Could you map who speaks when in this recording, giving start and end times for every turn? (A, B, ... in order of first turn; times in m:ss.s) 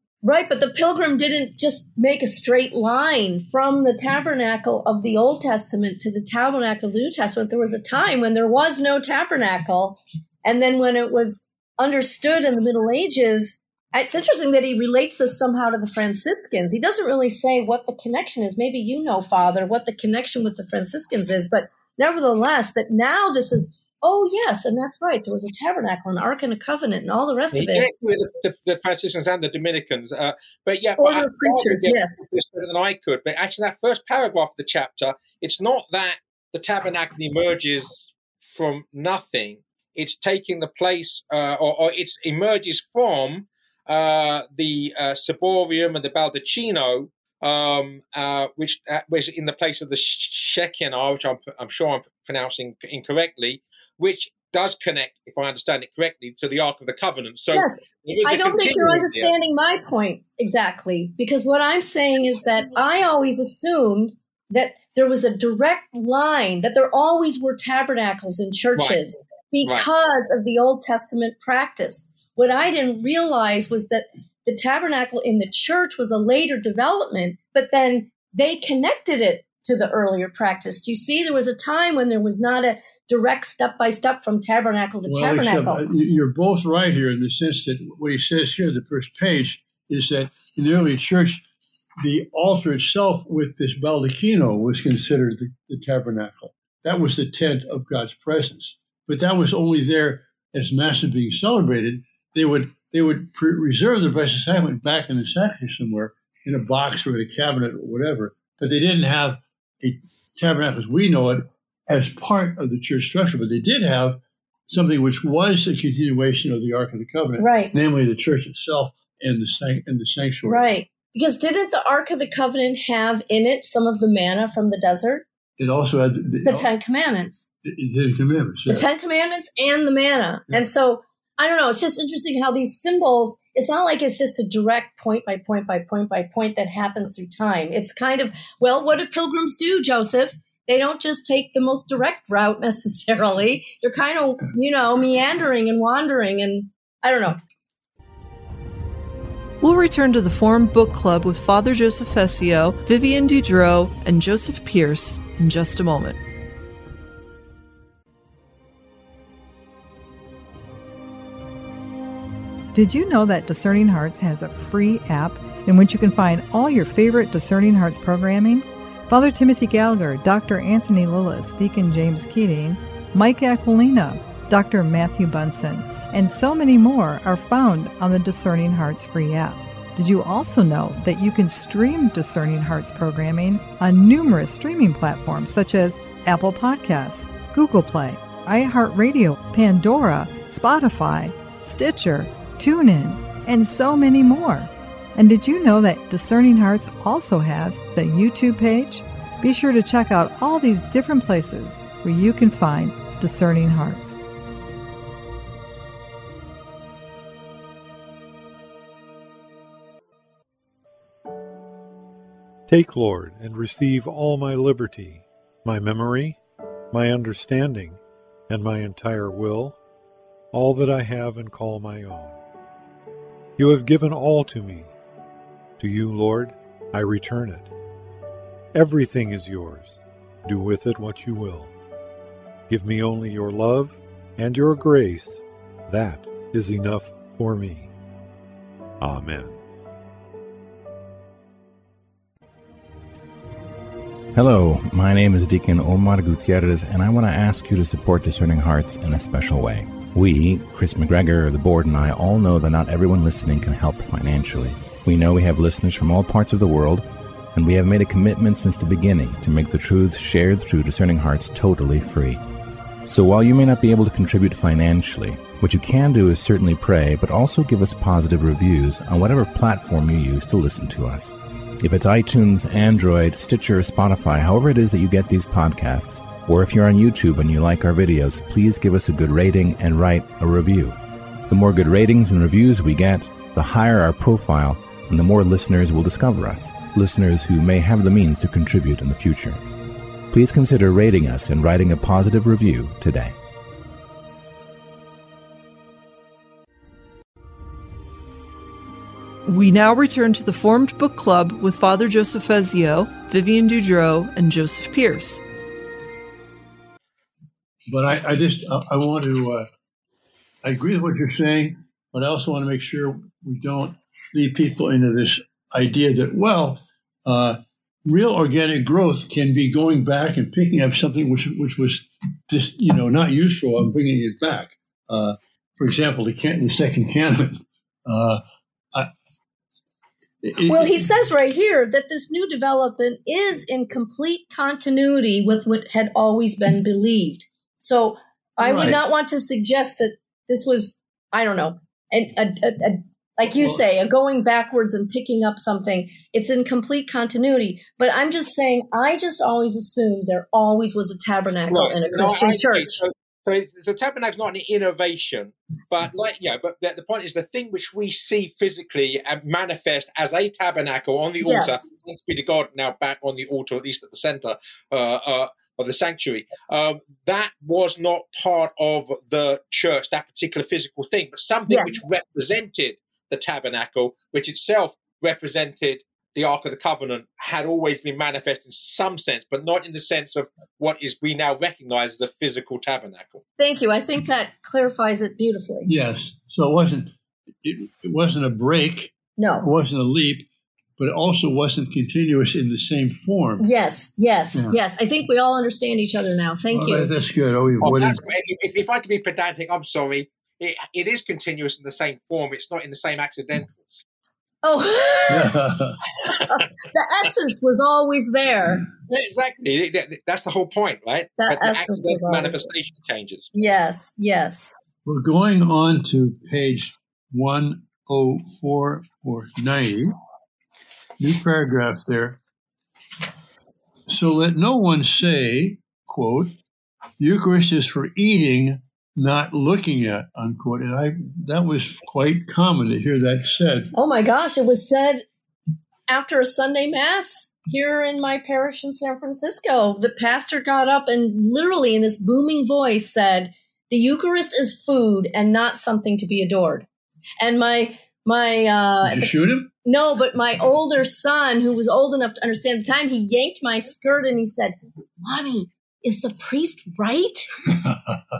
0:00.2-0:27.8 A
0:27.5-0:59.3 B
0:31.0-0:32.2 A
0:57.5-1:25.8 A
1:08.8-1:09.0 B
1:25.1-1:31.4 C
1:32.0-2:00.7 C
1:57.4-1:57.7 A
2:00.5-2:05.3 A
2:05.6-2:06.7 C
2:06.4-2:07.5 A
2:07.6-2:08.9 C
2:08.7-2:27.4 A
2:29.6-2:36.2 D
2:42.7-3:24.2 E
3:32.7-3:36.4 F
3:36.9-3:39.8 F
3:40.5-3:42.4 F
3:43.6-3:44.9 F
3:45.8-3:47.7 F
3:48.7-3:51.7 F
3:52.7-3:57.9 F
3:59.0-3:59.6 F
4:04.3-4:22.4 G
4:23.1-4:41.0 G
4:41.5-4:49.6 G
4:50.3-4:53.4 G
4:59.4-5:05.4 D
5:07.9-5:09.7 C
5:10.6-5:28.4 C
5:30.4-5:31.1 C
5:30.6-5:53.0 A
5:38.6-5:39.0 C
5:43.5-5:43.8 C
5:51.7-6:23.4 B
6:01.4-6:01.8 A
6:11.7-6:12.0 A
6:23.6-6:25.9 A
6:25.8-6:30.5 C
6:29.4-6:29.7 A
6:31.0-6:33.7 C
6:33.6-6:37.1 A
6:36.7-6:38.2 C
6:37.8-6:43.9 B
6:44.6-6:45.5 A
6:45.3-6:46.1 C
6:46.5-6:48.9 A
6:49.1-6:53.5 B
6:51.4-6:52.7 A
6:53.5-6:54.7 A
6:55.0-7:00.1 C
7:01.2-7:02.4 C
7:04.1-7:06.5 C
7:07.2-7:13.9 C
7:14.0-7:15.3 A
7:16.1-7:26.9 A
7:27.4-7:29.3 A
7:29.0-7:29.7 C
7:29.8-7:37.5 A
7:37.7-7:38.2 C